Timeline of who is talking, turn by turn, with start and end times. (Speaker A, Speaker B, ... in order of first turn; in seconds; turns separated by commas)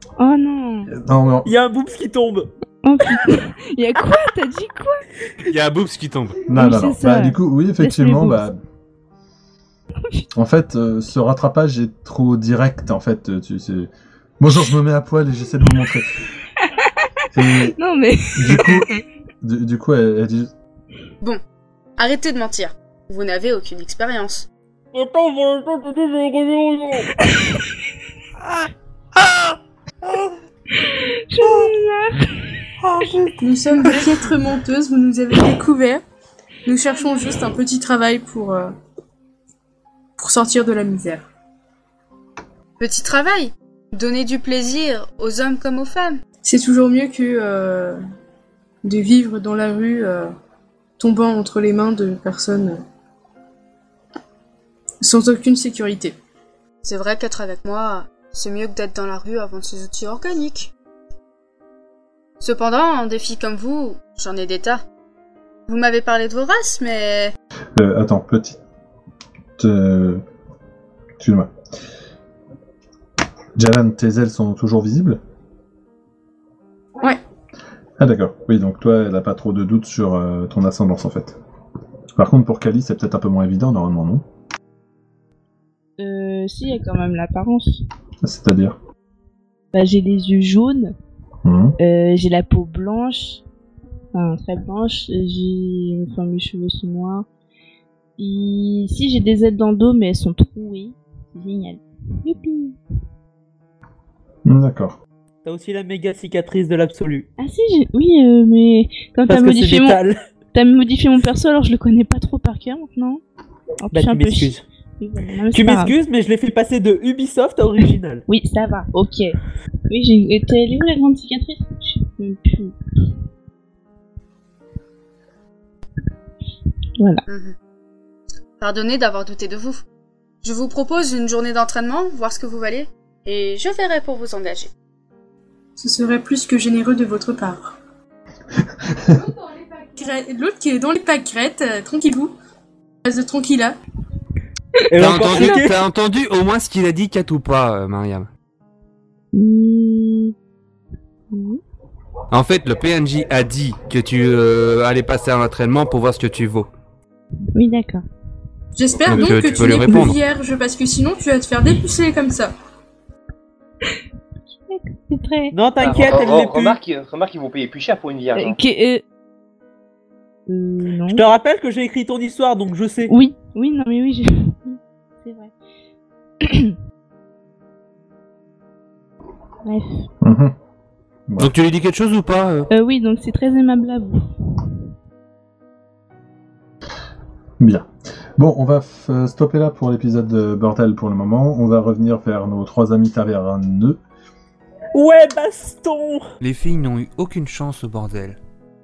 Speaker A: 0.2-0.9, Speaker B: 0.9-1.5, Speaker C: 1.4-2.5, Speaker A: 2.8-5.0, Speaker D: 5.5-6.5, Speaker B: 6.5-8.6, Speaker A: 6.5-8.5, Speaker B: 10.3-16.2, Speaker A: 16.6-19.0, Speaker B: 17.3-17.8, Speaker B: 18.3-18.9, Speaker B: 19.4-20.5, Speaker E: 22.0-24.5, Speaker C: 24.9-27.1, Speaker A: 27.2-27.7, Speaker A: 30.7-33.1, Speaker F: 33.4-36.0, Speaker F: 36.6-38.7, Speaker F: 40.2-41.3, Speaker E: 42.8-46.2, Speaker F: 46.4-48.0, Speaker F: 48.8-50.3, Speaker F: 51.0-52.8, Speaker F: 55.0-56.1, Speaker E: 56.8-60.7, Speaker E: 62.4-64.8, Speaker E: 65.7-67.3, Speaker B: 67.8-68.6, Speaker B: 69.6-70.2, Speaker B: 71.2-71.5, Speaker B: 73.6-75.2, Speaker B: 78.0-81.4, Speaker B: 82.2-84.2, Speaker A: 86.0-87.8, Speaker B: 88.2-88.8, Speaker A: 89.7-90.9, Speaker B: 91.4-91.8, Speaker A: 91.8-93.4, Speaker A: 94.1-97.3, Speaker A: 98.2-102.8, Speaker B: 104.5-105.0, Speaker C: 105.5-107.3, Speaker A: 107.4-110.0, Speaker C: 109.3-110.2, Speaker A: 110.5-113.2, Speaker A: 113.8-116.0, Speaker C: 113.9-114.6, Speaker C: 115.5-118.2, Speaker A: 118.3-119.4, Speaker A: 119.9-122.8, Speaker A: 127.0-127.2, Speaker E: 127.3-127.6, Speaker E: 128.6-129.8, Speaker E: 130.4-134.7, Speaker F: 135.8-137.8, Speaker F: 139.9-142.3, Speaker F: 143.0-143.8, Speaker C: 144.9-145.8, Speaker D: 145.0-148.3, Speaker A: 149.3-150.3, Speaker A: 151.3-151.6, Speaker D: 152.3-156.7, Speaker A: 157.5-158.0, Speaker F: 158.8-162.5, Speaker G: 159.1-159.4, Speaker D: 159.1-160.2, Speaker A: 164.5-165.6, Speaker C: 165.5-166.8, Speaker G: 165.8-168.6, Speaker A: 168.3-169.0, Speaker A: 170.5-171.2, Speaker C: 171.1-173.1, Speaker A: 173.1-175.5, Speaker A: 176.4-176.8, Speaker A: 179.6-180.1, Speaker B: 180.2-180.5, Speaker D: 181.4-182.7, Speaker A: 182.7-184.7, Speaker B: 187.6-194.0, Speaker C: 194.9-196.3, Speaker D: 196.4-198.4